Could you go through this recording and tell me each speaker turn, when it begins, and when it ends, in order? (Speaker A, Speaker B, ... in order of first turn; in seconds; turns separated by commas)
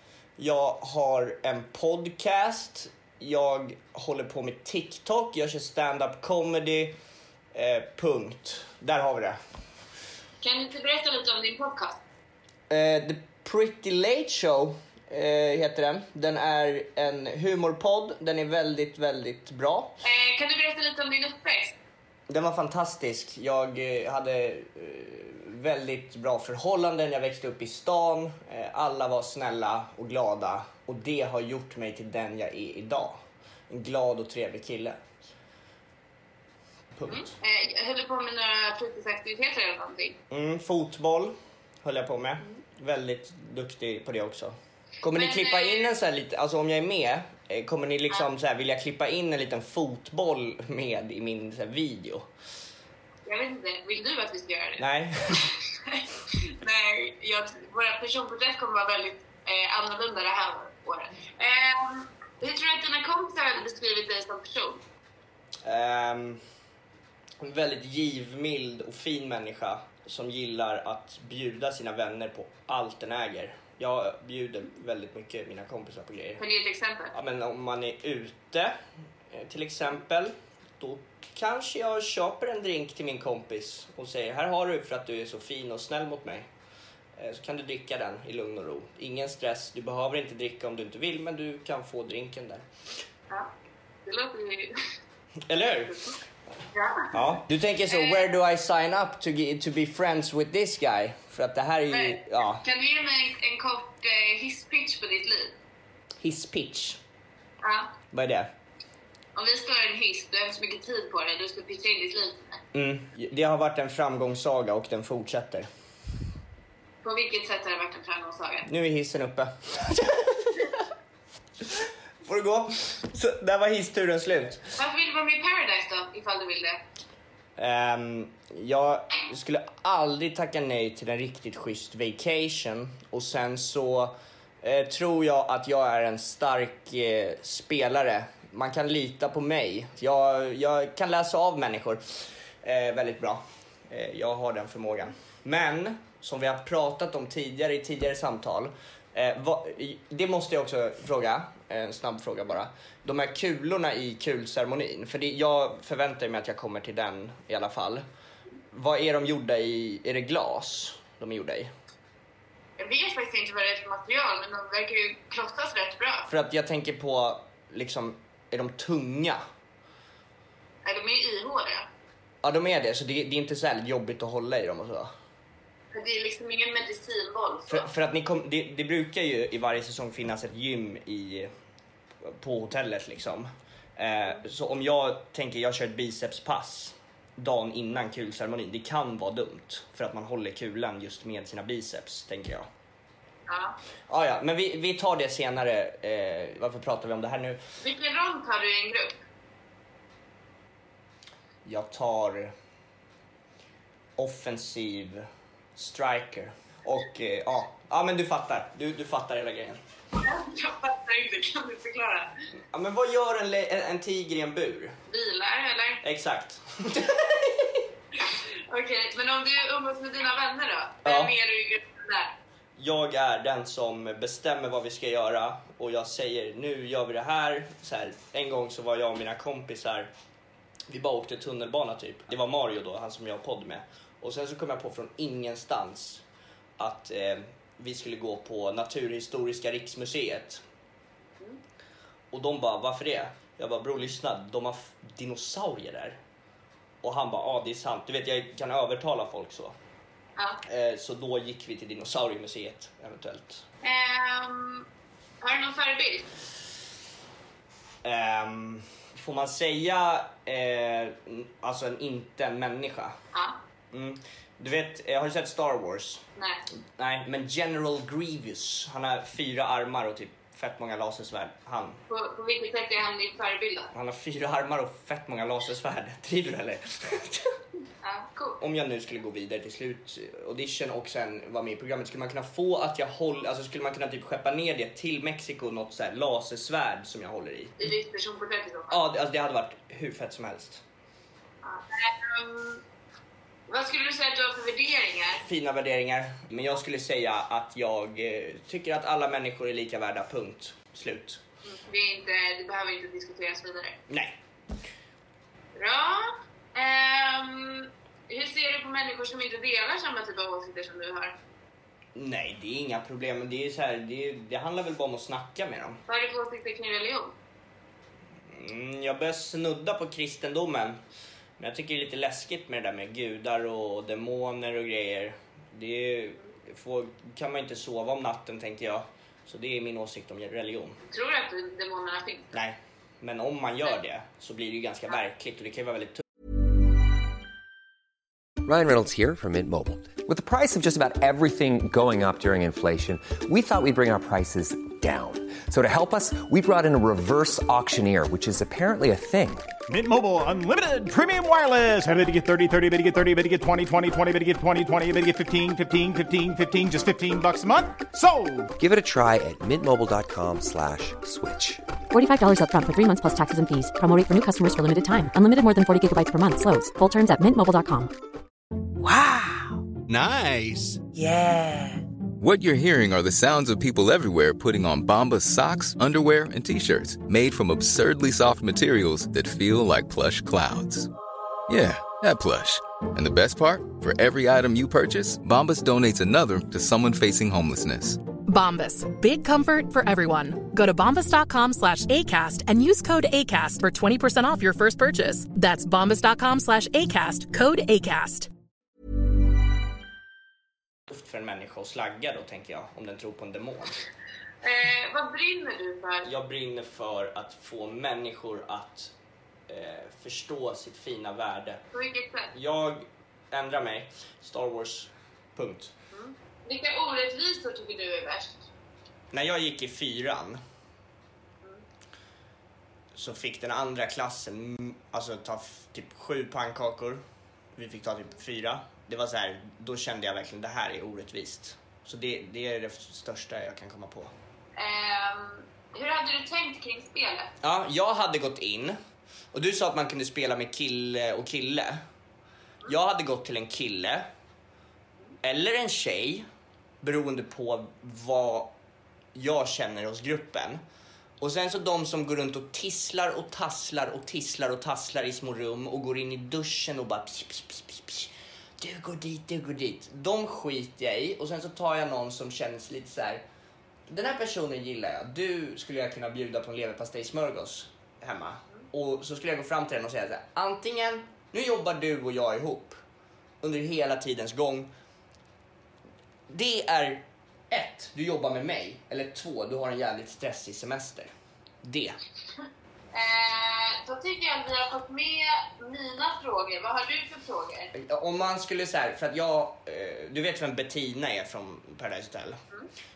Speaker A: 0.4-7.0, Speaker A: 7.5-9.4, Speaker B: 10.4-12.0, Speaker A: 12.7-20.0, Speaker B: 20.0-21.7, Speaker A: 22.3-35.0, Speaker A: 37.0-37.3, Speaker B: 37.1-40.2, Speaker A: 40.3-52.3, Speaker B: 45.1-45.9, Speaker B: 53.2-56.0, Speaker A: 54.8-55.5, Speaker B: 56.6-64.8, Speaker A: 65.6-66.4, Speaker A: 67.4-76.4, Speaker B: 76.4-77.1, Speaker A: 77.1-78.7, Speaker A: 79.3-86.5, Speaker A: 87.2-92.7, Speaker B: 94.0-94.7, Speaker A: 95.5-96.2, Speaker B: 96.7-98.3, Speaker A: 97.1-102.6, Speaker B: 101.9-105.5, Speaker A: 106.2-107.0, Speaker B: 107.6-107.9, Speaker A: 108.1-108.5, Speaker B: 109.3-112.6, Speaker A: 112.7-115.7, Speaker B: 117.0-118.7, Speaker A: 118.7-120.8, Speaker A: 121.7-124.6, Speaker B: 124.8-126.8, Speaker A: 127.6-158.0, Speaker A: 158.7-161.7, Speaker B: 162.8-166.3, Speaker A: 166.3-169.4, Speaker B: 170.8-171.8, Speaker A: 172.4-175.1, Speaker B: 175.9-177.9, Speaker A: 177.7-181.5, Speaker A: 182.2-192.7, Speaker B: 193.5-193.8, Speaker A: 194.1-197.6, Speaker B: 197.8-199.2, Speaker A: 201.7-202.5, Speaker A: 204.2-209.8, Speaker B: 210.2-212.3, Speaker A: 212.7-214.9, Speaker B: 215.1-216.0, Speaker A: 216.0-217.5, Speaker B: 218.7-222.3, Speaker A: 221.0-221.3, Speaker A: 222.8-230.1, Speaker A: 230.9-236.2, Speaker A: 236.8-240.6, Speaker A: 242.3-246.2, Speaker A: 247.0-249.7, Speaker A: 250.7-253.6, Speaker B: 253.8-254.9, Speaker B: 255.4-256.2, Speaker A: 258.0-263.1, Speaker A: 263.9-266.2, Speaker A: 267.0-272.0, Speaker B: 272.1-273.9, Speaker A: 273.9-277.5, Speaker B: 278.0-278.6, Speaker A: 278.6-287.9, Speaker B: 287.8-289.0, Speaker A: 288.9-290.8, Speaker B: 291.6-292.8, Speaker B: 293.7-295.4, Speaker A: 295.4-301.4, Speaker B: 301.6-304.0, Speaker A: 304.1-304.3, Speaker B: 305.7-311.3, Speaker A: 312.1-316.0, Speaker B: 316.1-317.3, Speaker A: 318.5-321.0, Speaker A: 321.6-331.0, Speaker B: 331.1-332.5, Speaker A: 332.5-336.2, Speaker C: 338.6-349.7, Speaker D: 349.9-358.7, Speaker C: 358.8-361.8, Speaker E: 362.1-368.1, Speaker F: 370.1-371.0, Speaker F: 372.4-381.1, Speaker F: 381.7-388.2, Speaker G: 388.4-398.5, Speaker A: 401.1-404.0, Speaker B: 404.6-406.3, Speaker A: 406.2-409.1, Speaker A: 409.7-411.8, Speaker B: 411.9-412.5, Speaker A: 412.5-415.9, Speaker B: 416.1-418.6, Speaker A: 419.3-420.6, Speaker A: 423.1-427.2, Speaker A: 427.8-434.3, Speaker B: 434.8-437.5, Speaker A: 437.6-439.0, Speaker A: 439.5-442.0, Speaker A: 442.9-444.3, Speaker A: 445.4-446.5, Speaker A: 447.0-448.7, Speaker A: 449.3-450.8, Speaker A: 451.4-463.4, Speaker A: 464.1-473.0, Speaker A: 473.6-474.9, Speaker A: 476.5-481.3, Speaker A: 481.8-482.2, Speaker B: 483.1-487.9, Speaker A: 487.9-492.6